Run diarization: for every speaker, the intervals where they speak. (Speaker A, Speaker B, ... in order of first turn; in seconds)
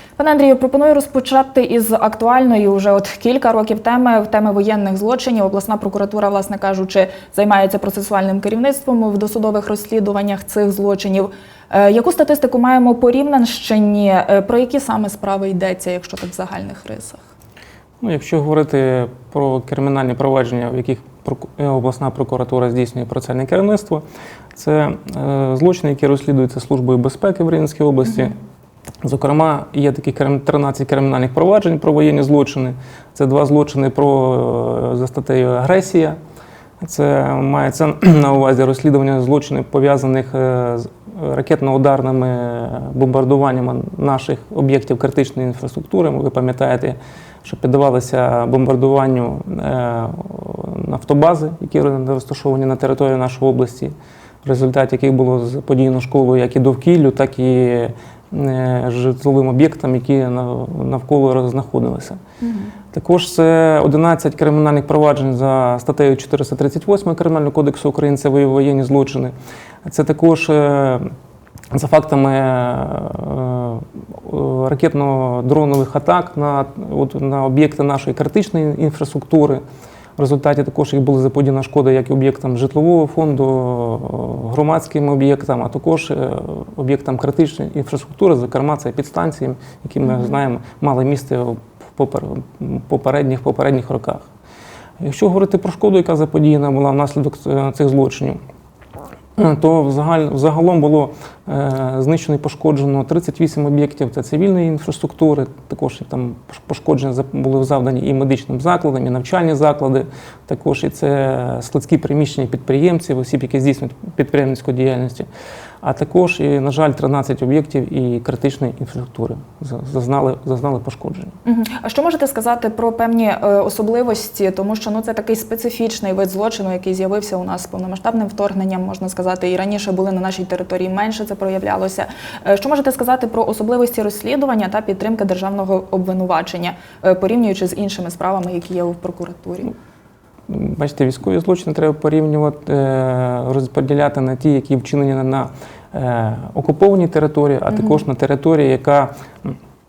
Speaker A: 0.2-17.2, 62.4-62.7, 90.0-90.3, 121.4-139.7, 147.7-148.0
Speaker B: 18.0-24.0, 24.5-28.3, 29.0-36.2, 36.8-62.2, 62.9-69.3, 69.8-71.1, 71.7-79.6, 80.2-94.3, 95.0-98.4, 99.3-115.3, 115.8-121.3, 140.5-149.5